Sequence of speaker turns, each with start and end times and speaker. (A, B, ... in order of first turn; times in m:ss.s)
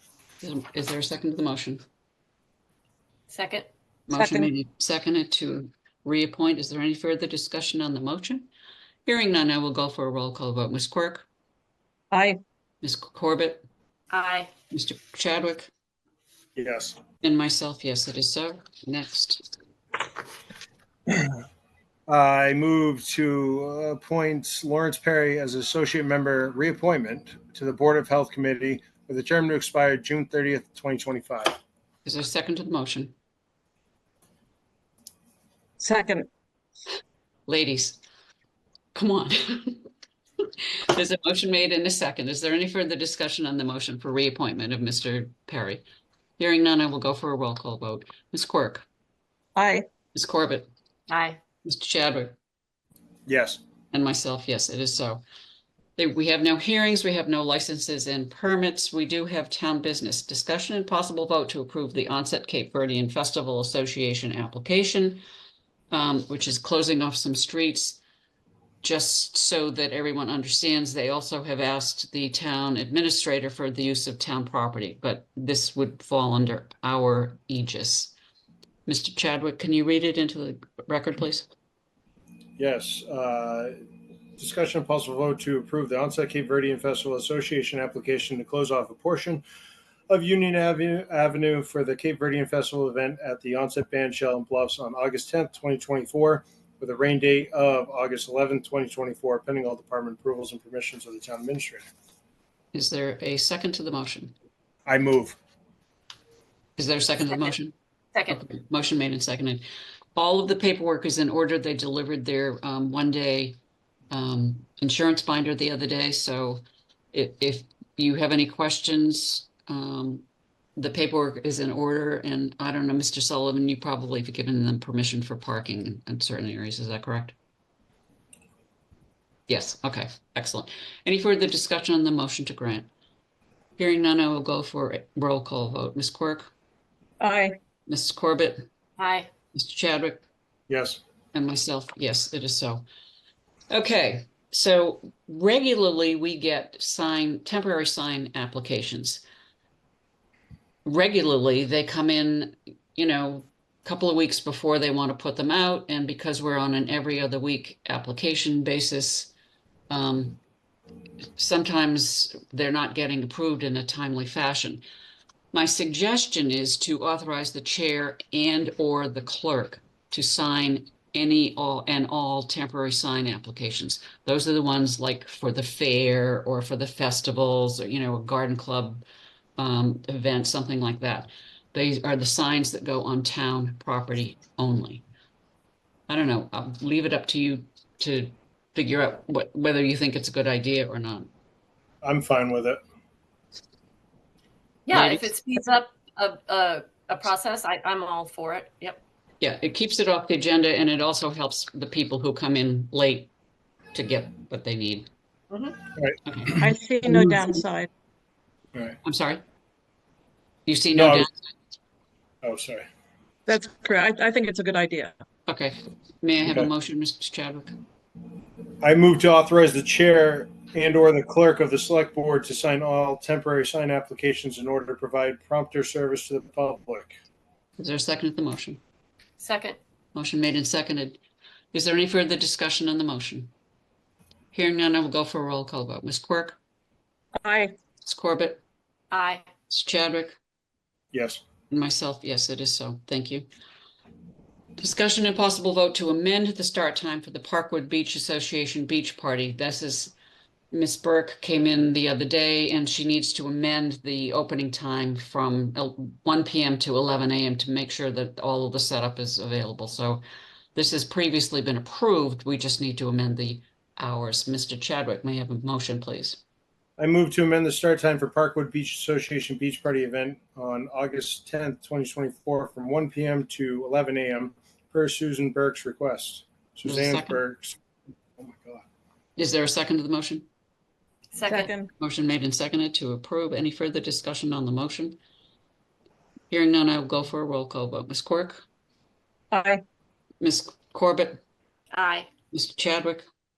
0:00.4-0:01.8 A
0:03.3-0:03.7 B
0:04.1-0:08.5 A
0:04.1-0:04.5 C
0:09.0-0:11.2 A
0:12.1-0:12.4 C
0:12.8-0:13.6 A
0:14.1-0:14.5 B
0:14.7-0:15.7 A
0:16.6-0:17.0 D
0:17.2-0:19.4 A
0:22.1-0:31.6 D
0:32.0-0:33.1 A
0:35.8-0:36.3 C
0:37.5-0:38.0 A
0:38.9-0:39.8 A
0:40.9-0:45.8 A
0:46.4-0:48.8 A
0:49.6-0:49.8 C
0:50.1-0:50.7 A
0:51.1-0:51.4 B
0:51.6-0:52.4 A
0:53.3-0:53.6 D
0:53.9-0:55.2 A
0:56.0-1:05.2 A
1:05.9-1:08.0 A
1:08.8-1:18.1 A
1:18.9-1:21.5 A
1:22.6-1:23.8 D
1:24.4-1:29.4 D
1:30.1-1:41.9 D
1:42.7-1:44.3 A
1:44.9-1:45.4 D
1:46.8-1:47.7 A
1:48.3-1:49.6 A
1:50.2-1:53.6 A
1:54.1-1:56.6 A
1:57.1-2:00.2 A
2:00.8-2:07.3 A
2:09.5-2:12.9 A
2:13.8-2:16.5 A
2:17.2-2:17.6 C
2:17.9-2:18.6 A
2:19.0-2:19.3 B
2:19.5-2:20.2 A
2:20.7-2:21.0 D
2:21.3-2:22.8 A
2:23.7-2:29.2 A
2:30.8-2:39.3 A
2:39.9-2:40.4 A
2:41.4-2:44.8 A
2:45.5-2:59.0 A
2:59.6-3:05.0 A
3:06.1-3:11.3 A
3:12.0-3:12.8 D
3:14.9-3:19.0 B
3:14.9-3:15.3 A
3:19.4-3:23.3 A
3:23.9-3:25.1 A
3:25.5-3:25.8 B
3:26.2-3:26.6 A
3:26.6-3:27.9 C
3:29.0-3:29.4 A
3:30.6-3:31.3 A
3:30.9-3:31.3 D
3:32.4-3:32.8 D
3:33.5-3:35.1 C
3:35.4-3:37.7 A
3:38.8-3:47.1 D
3:47.8-3:48.8 A
3:49.4-3:49.8 B
3:50.1-3:51.2 A
3:51.7-3:53.5 A
3:54.5-3:56.6 A
3:57.4-3:57.7 C
3:58.0-3:58.6 A
3:59.1-3:59.4 B
3:59.7-4:00.4 A
4:01.1-4:01.4 D
4:01.7-4:03.4 A
4:04.8-4:10.1 A
4:10.7-4:20.2 A
4:20.7-4:26.4 A
4:27.0-4:37.8 D
4:36.8-4:37.4 A
4:38.3-4:38.8 D
4:39.4-4:40.4 A
4:41.3-4:41.7 B
4:41.4-4:41.9 C
4:42.0-4:45.2 A
4:46.5-4:48.6 A
4:49.5-4:49.8 C
4:50.4-4:51.4 A
4:51.9-4:52.3 B
4:52.5-4:53.2 A